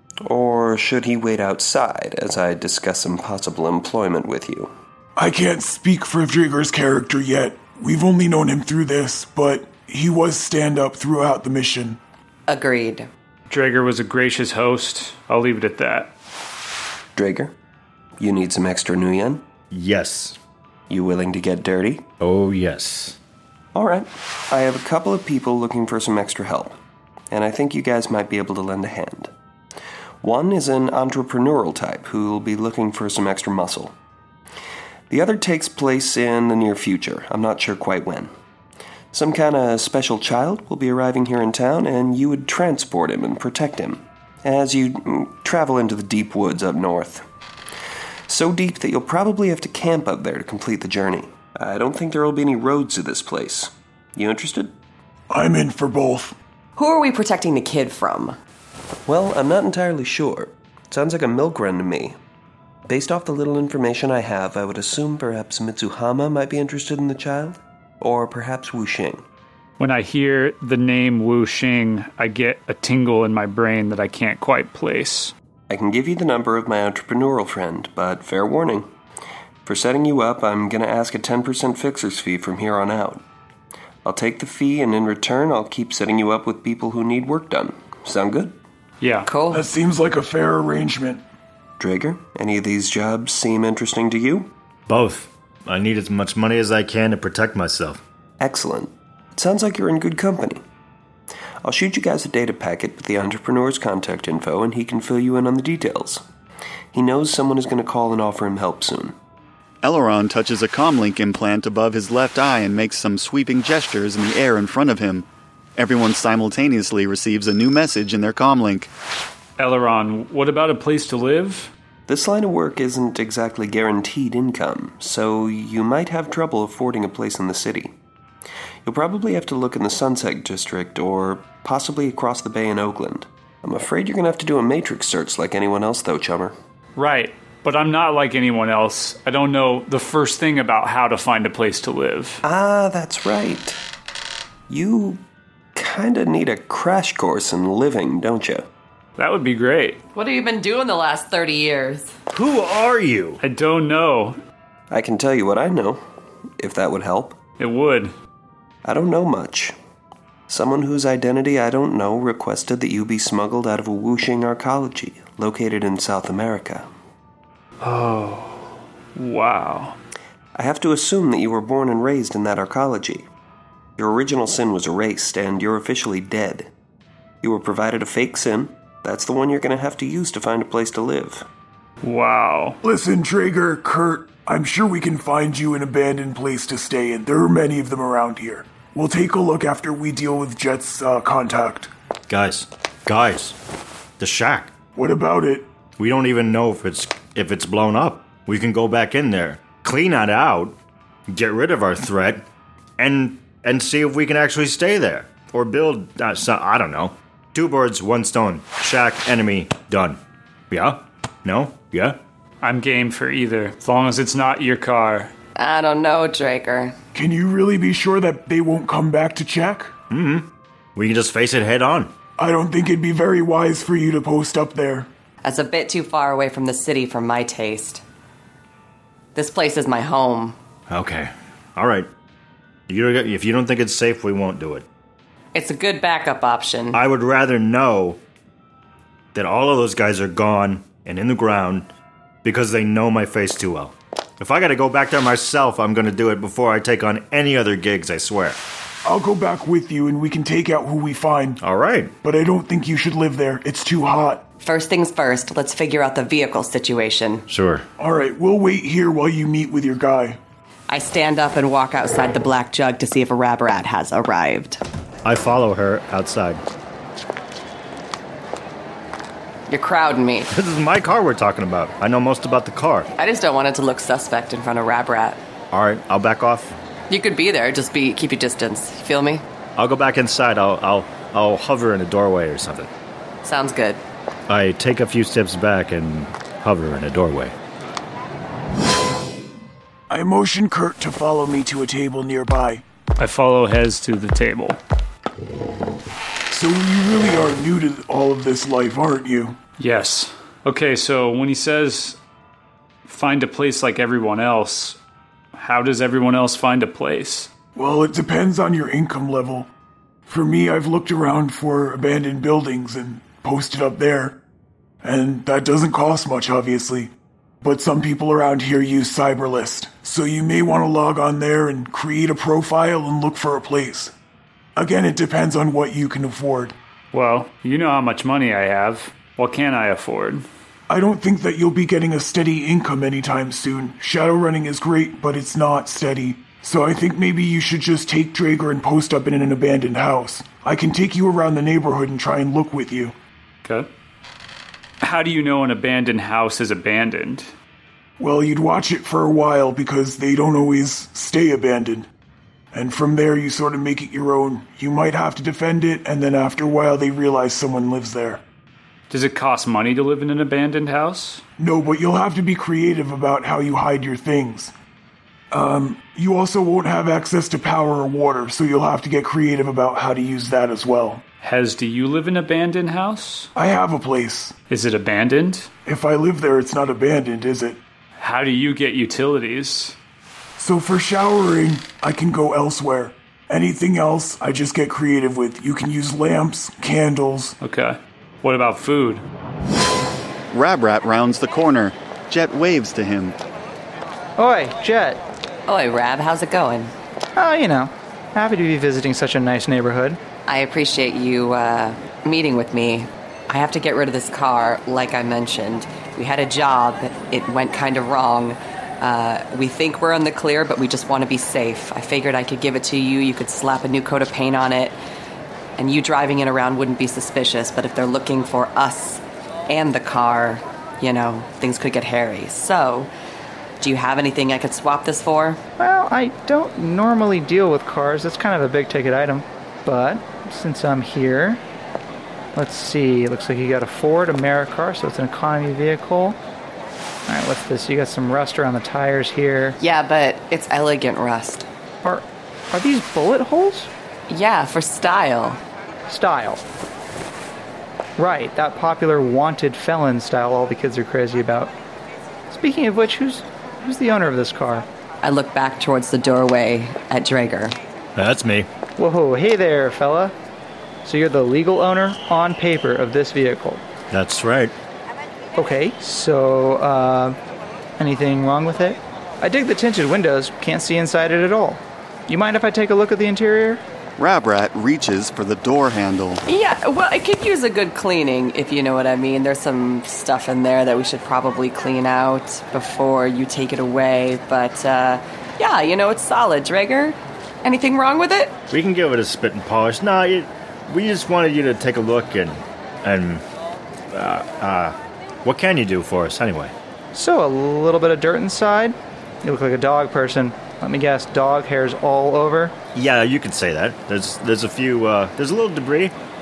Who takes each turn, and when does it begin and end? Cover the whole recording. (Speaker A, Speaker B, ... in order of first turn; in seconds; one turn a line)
Speaker A: 0.2-4.7
Speaker B: 5.2-12.0
Speaker C: 12.5-13.1
Speaker D: 13.5-16.1
Speaker A: 17.1-17.5
Speaker A: 18.2-19.4
Speaker E: 19.7-20.4
Speaker A: 20.9-22.1
Speaker E: 22.2-23.2
Speaker A: 23.7-26.8
Speaker A: 27.3-29.3
Speaker A: 30.2-33.9
Speaker A: 35.1-38.3
Speaker A: 39.1-47.2
Speaker A: 48.3-54.7
Speaker B: 55.3-56.4
Speaker C: 56.8-58.4
Speaker A: 59.0-62.2
Speaker A: 62.9-69.2
Speaker D: 69.8-75.3
Speaker A: 75.7-78.9
Speaker A: 79.7-83.2
Speaker A: 84.0-88.6
Speaker D: 89.0-89.3
Speaker C: 89.2-89.7
Speaker B: 89.5-91.2
Speaker A: 91.8-94.5
Speaker E: 94.9-98.0
Speaker A: 98.4-100.6
Speaker A: 101.6-106.2
Speaker A: 106.9-109.2
Speaker F: 109.8-118.9
Speaker D: 119.6-121.7
Speaker A: 122.1-127.9
Speaker A: 128.8-136.5
Speaker D: 136.9-142.4
Speaker A: 142.4-143.8
Speaker A: 144.7-145.2
Speaker A: 145.7-148.7
Speaker D: 149.2-150.0
Speaker C: 150.1-152.1
Speaker E: 152.3-153.4
Speaker D: 153.4-154.4
Speaker A: 154.9-156.0
Speaker A: 156.6-157.4
Speaker D: 157.6-158.1
Speaker A: 158.8-159.7
Speaker A: 160.5-166.9
Speaker D: 167.8-170.0
Speaker A: 170.5-173.3
Speaker A: 174.0-176.7
Speaker A: 177.4-181.4
Speaker D: 182.0-182.8
Speaker B: 182.8-191.9
Speaker E: 192.3-193.6
Speaker E: 194.2-194.7
Speaker B: 194.9-195.7
Speaker E: 196.0-202.4
Speaker E: 203.0-210.2
Speaker E: 210.7-212.2
Speaker D: 212.6-215.3
Speaker C: 215.6-216.9
Speaker B: 217.1-219.9
Speaker E: 220.1-222.1
Speaker B: 222.4-225.1
Speaker C: 225.4-228.0
Speaker C: 229.3-230.6
Speaker E: 230.9-232.1
Speaker E: 232.9-234.8
Speaker C: 235.5-237.0
Speaker E: 236.9-238.2
Speaker E: 239.3-241.9
Speaker E: 242.4-248.6
Speaker B: 249.0-251.6
Speaker E: 251.6-252.1
Speaker B: 252.2-254.4
Speaker C: 254.6-257.4
Speaker E: 257.5-257.8
Speaker B: 258.0-260.4
Speaker C: 260.9-264.8
Speaker E: 265.2-266.6
Speaker C: 269.7-270.5
Speaker E: 270.5-273.1
Speaker C: 273.1-275.4
Speaker E: 275.7-276.7
Speaker C: 277.1-279.4
Speaker E: 279.8-282.9
Speaker C: 283.4-284.0
Speaker E: 284.5-287.5
Speaker B: 290.1-292.8
Speaker D: 293.2-294.8
Speaker B: 296.5-299.6
Speaker D: 299.8-302.2
Speaker D: 303.1-305.0
Speaker D: 305.6-307.5
Speaker B: 307.8-309.7
Speaker B: 310.3-314.4
Speaker B: 315.0-324.1
Speaker B: 324.8-326.7
Speaker D: 327.1-330.4
Speaker B: 330.9-343.1
Speaker D: 345.0-347.5
Speaker B: 348.2-352.1
Speaker B: 352.7-358.4
Speaker D: 359.1-361.4
Speaker B: 361.6-364.7
Speaker B: 365.5-371.2
Speaker D: 371.4-373.5
Speaker B: 373.6-374.6
Speaker D: 374.7-375.7
Speaker B: 375.9-377.8
Speaker D: 378.2-379.9
Speaker B: 380.6-387.6
Speaker D: 387.6-389.2
Speaker F: 390.5-393.4
Speaker G: 394.4-395.2
Speaker C: 395.6-396.9
Speaker G: 397.4-400.2
Speaker C: 400.5-415.0
Speaker C: 415.8-423.1
Speaker C: 423.8-425.6
Speaker G: 425.8-431.6
Speaker G: 432.5-436.4
Speaker G: 437.3-439.8
Speaker C: 439.8-441.7
Speaker G: 442.0-443.9
Speaker C: 444.3-445.6
Speaker G: 446.1-446.6
Speaker G: 448.2-451.7
Speaker G: 452.5-454.9
Speaker C: 455.2-457.8
Speaker E: 458.1-458.7
Speaker G: 459.0-460.3
Speaker G: 461.0-463.8
Speaker E: 464.1-464.7
Speaker G: 465.6-467.4
Speaker G: 468.0-473.8
Speaker F: 474.2-476.4
Speaker C: 476.4-488.6
Speaker E: 488.7-493.4
Speaker E: 494.1-496.7
Speaker G: 497.1-502.8
Speaker E: 502.9-506.1